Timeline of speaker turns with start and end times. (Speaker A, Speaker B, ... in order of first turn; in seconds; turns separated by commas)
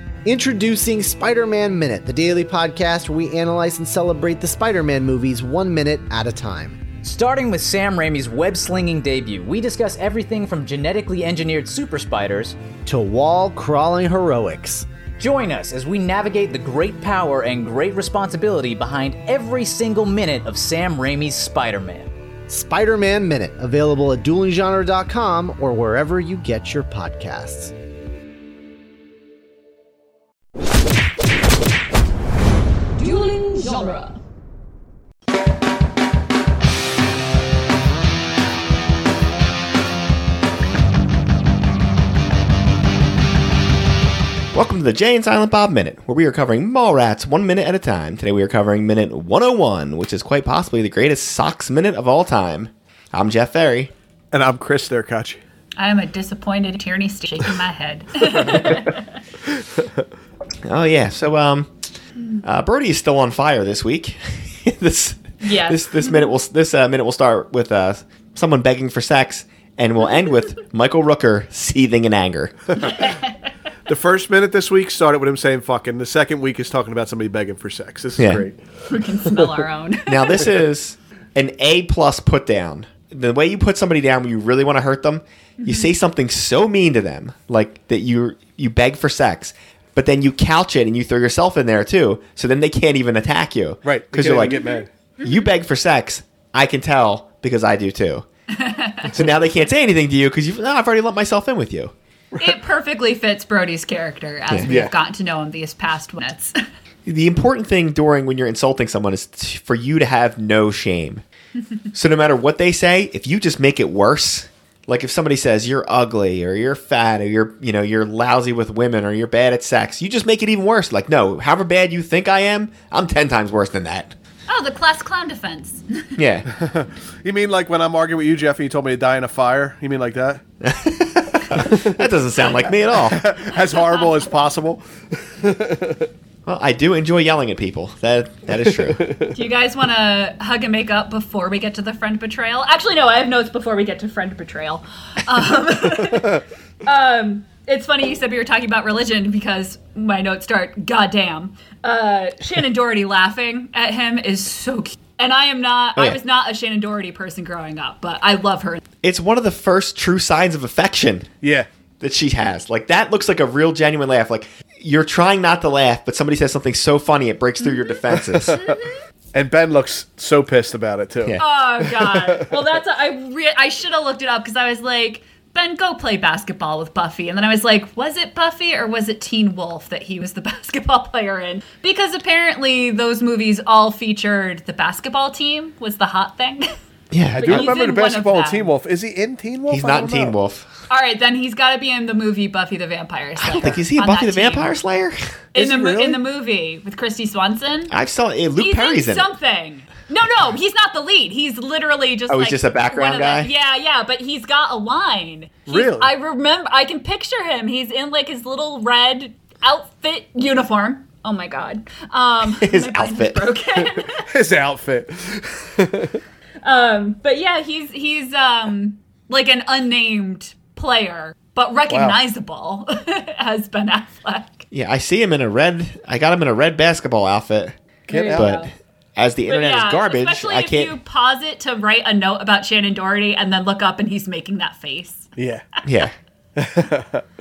Speaker A: 0.2-6.8, Speaker B: 7.0-12.6, Speaker A: 12.8-14.9, Speaker B: 15.2-22.1, Speaker A: 22.5-27.7, Speaker C: 33.0-34.2, Speaker D: 44.5-53.9, Speaker E: 54.3-55.4, Speaker C: 55.8-59.1, Speaker D: 60.6-61.7, Speaker D: 62.4-72.8, Speaker C: 65.4-66.3, Speaker C: 73.0-73.3, Speaker E: 73.9-78.6, Speaker D: 78.2-78.5, Speaker C: 78.9-80.5, Speaker E: 79.2-79.5, Speaker D: 80.1-94.6, Speaker C: 85.6-85.9, Speaker E: 93.8-94.9, Speaker D: 95.2-98.2, Speaker C: 98.5-99.1, Speaker D: 99.1-101.9, Speaker E: 102.3-102.6, Speaker C: 102.4-106.6, Speaker D: 104.5-104.7, Speaker E: 104.7-104.9, Speaker D: 107.1-111.2, Speaker D: 111.9-124.1, Speaker C: 124.5-126.2, Speaker D: 126.2-126.5, Speaker E: 126.6-130.4, Speaker D: 130.6-133.2, Speaker E: 131.6-132.0, Speaker E: 132.9-136.1, Speaker C: 133.6-134.2, Speaker D: 136.5-139.0, Speaker E: 138.9-139.3, Speaker C: 139.3-158.8, Speaker D: 159.0-161.3, Speaker E: 161.4-161.7, Speaker D: 162.0-168.6, Speaker C: 167.6-168.9, Speaker E: 168.2-168.6, Speaker E: 169.3-172.5, Speaker C: 171.4-186.7, Speaker D: 187.1-187.7, Speaker E: 187.3-190.4, Speaker C: 187.4-188.7, Speaker D: 189.7-190.7, Speaker C: 190.9-194.7, Speaker D: 193.4-195.3, Speaker C: 195.5-197.9, Speaker E: 195.6-196.2, Speaker D: 197.9-199.3, Speaker C: 198.6-214.3, Speaker D: 202.3-203.5, Speaker E: 205.7-206.1, Speaker D: 212.5-213.5, Speaker E: 214.2-216.2, Speaker C: 216.6-224.7, Speaker E: 221.9-222.2, Speaker D: 224.7-231.0, Speaker E: 228.1-228.5, Speaker C: 228.1-228.7, Speaker C: 229.5-235.3, Speaker E: 235.4-235.6, Speaker D: 235.9-236.1, Speaker E: 236.6-237.2